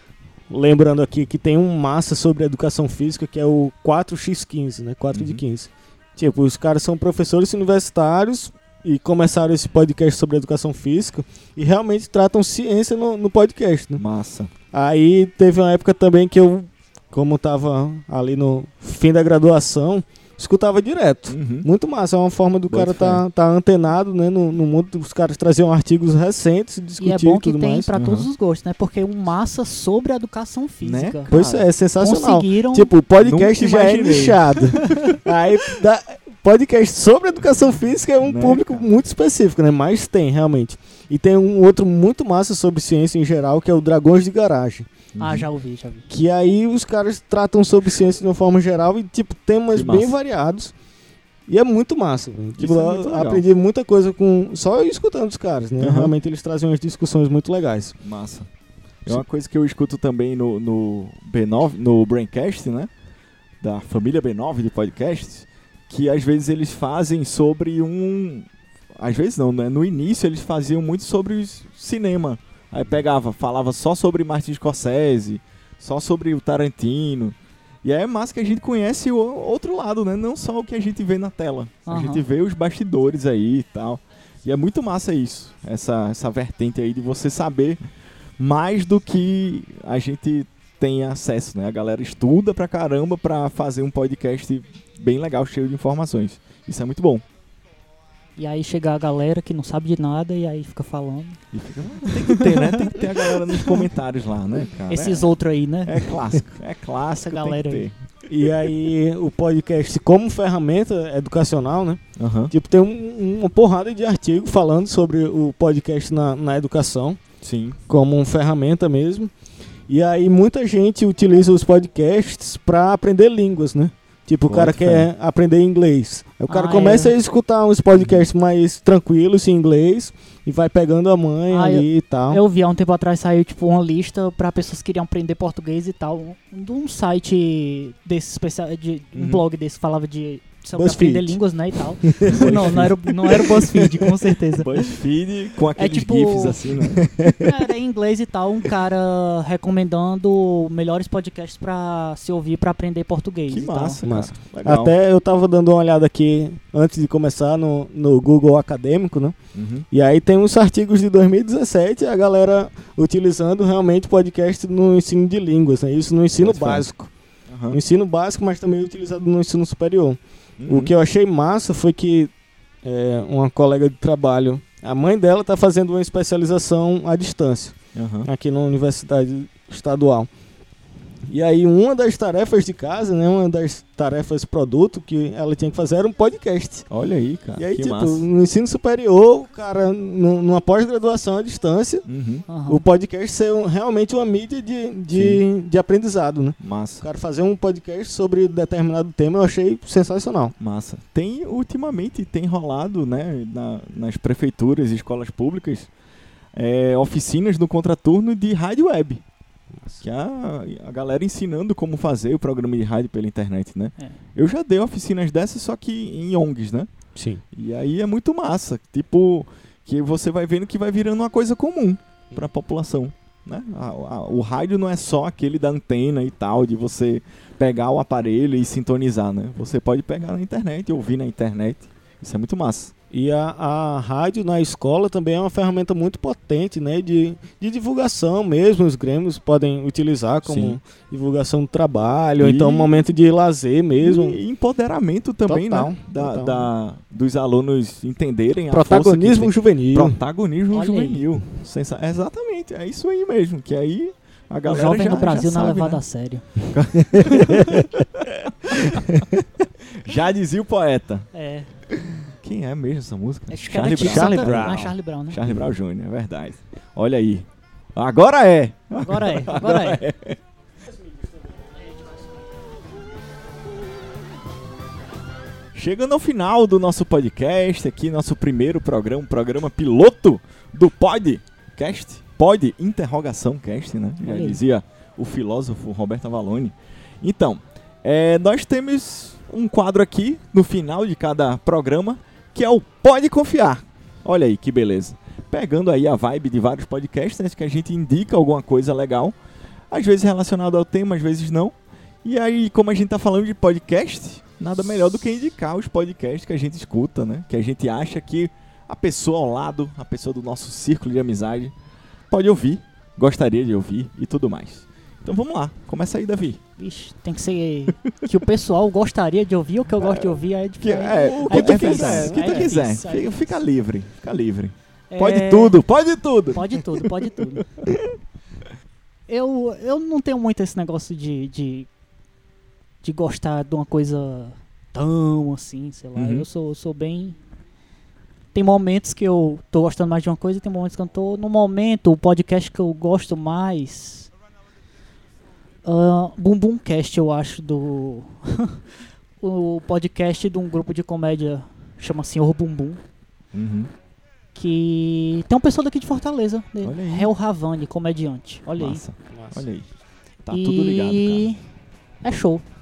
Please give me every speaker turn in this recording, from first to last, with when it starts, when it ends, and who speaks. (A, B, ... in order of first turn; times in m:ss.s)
0:00.5-0:14.0 A
0:05.1-0:05.4 B
0:14.0-0:14.5 B
0:14.7-0:27.9 A
0:21.3-0:21.7 B
0:22.7-0:23.2 B
0:27.0-0:31.3 C
0:27.9-0:28.3 B
0:30.8-0:31.7 B
0:31.3-0:44.9 A
0:32.0-0:32.9 C
0:33.2-0:35.2 B
0:38.2-0:38.9 B
0:45.2-0:45.5 B
0:45.2-0:46.1 C
0:46.1-0:50.7 A
0:49.7-0:50.2 B
0:51.5-0:58.0 A
0:52.6-0:53.4 B
0:55.8-0:56.1 B
0:58.0-0:58.5 B
0:59.0-1:02.9 B
1:03.6-1:27.8 B
1:21.9-1:22.2 C
1:28.4-1:37.2 B
1:38.4-1:41.4 C
1:41.5-1:45.3 B
1:42.1-1:43.9 C
1:44.9-1:46.1 C
1:45.8-1:48.0 B
1:47.2-1:47.9 C
1:48.3-1:57.2 A
1:52.2-1:52.5 B
1:57.4-1:57.8 B
1:57.9-1:59.3 A
1:59.9-2:12.4 A
2:04.4-2:05.1 B
2:06.5-2:07.2 C
2:08.0-2:08.3 B
2:11.5-2:24.8 C
2:19.2-2:19.4 B
2:20.8-2:21.4 A
2:22.0-2:22.9 A
2:22.3-2:23.0 B
2:24.5-2:27.3 B
2:25.8-2:26.8 C
2:27.0-2:27.5 A
2:27.4-2:34.0 C
2:33.5-2:34.9 B
2:34.0-2:39.4 A
2:39.5-2:39.9 B
2:39.9-2:47.1 A
2:46.4-2:46.9 B
2:47.5-2:47.8 B
2:47.7-2:52.3 A
2:50.6-2:50.9 B
2:52.8-3:00.3 A
2:58.0-2:58.3 B
3:01.3-3:06.9 A
3:06.9-3:08.3 B
3:07.6-3:12.1 A
3:12.1-3:12.4 B
3:12.5-3:12.8 C
3:12.7-3:20.6 A
3:15.1-3:15.4 B
3:16.6-3:17.0 B
3:20.6-3:25.9 B
3:26.5-3:29.2 B
3:30.0-3:36.9 B
3:37.2-3:37.4 A
3:37.5-3:52.9 B
3:53.1-4:04.4 A
4:00.4-4:00.8 B
4:02.4-4:03.0 B
4:04.0-4:16.0 B
4:05.5-4:06.7 A
4:08.7-4:10.2 A
4:10.7-4:11.4 C
4:14.6-4:16.5 C
4:16.7-4:19.2 B
4:17.0-4:18.0 A
4:18.8-4:19.4 A
4:19.8-4:21.3 B
4:21.3-4:21.7 C
4:21.9-4:30.4 B
4:23.5-4:25.4 C
4:24.0-4:25.0 A
4:29.0-4:30.0 C
4:35.7-4:59.4 B
4:44.2-4:44.6 C
4:59.9-5:11.8 B
5:12.3-5:16.6 B
5:16.8-5:23.5 C
5:20.8-5:28.0 B
5:21.4-5:22.8 A
5:25.1-5:25.8 C
5:26.5-5:27.7 C
5:29.3-5:31.9 C
5:33.0-5:37.4 C
5:36.2-5:36.5 B
5:38.5-5:44.3 C
5:45.8-5:48.8 C
5:49.4-5:53.0 C
5:53.5-5:53.9 B
5:54.6-5:59.0 C
5:56.8-5:57.3 B
5:58.8-5:59.9 B
5:59.3-5:59.6 A
6:00.4-6:01.6 B
6:00.5-6:01.6 C
6:02.2-6:02.6 C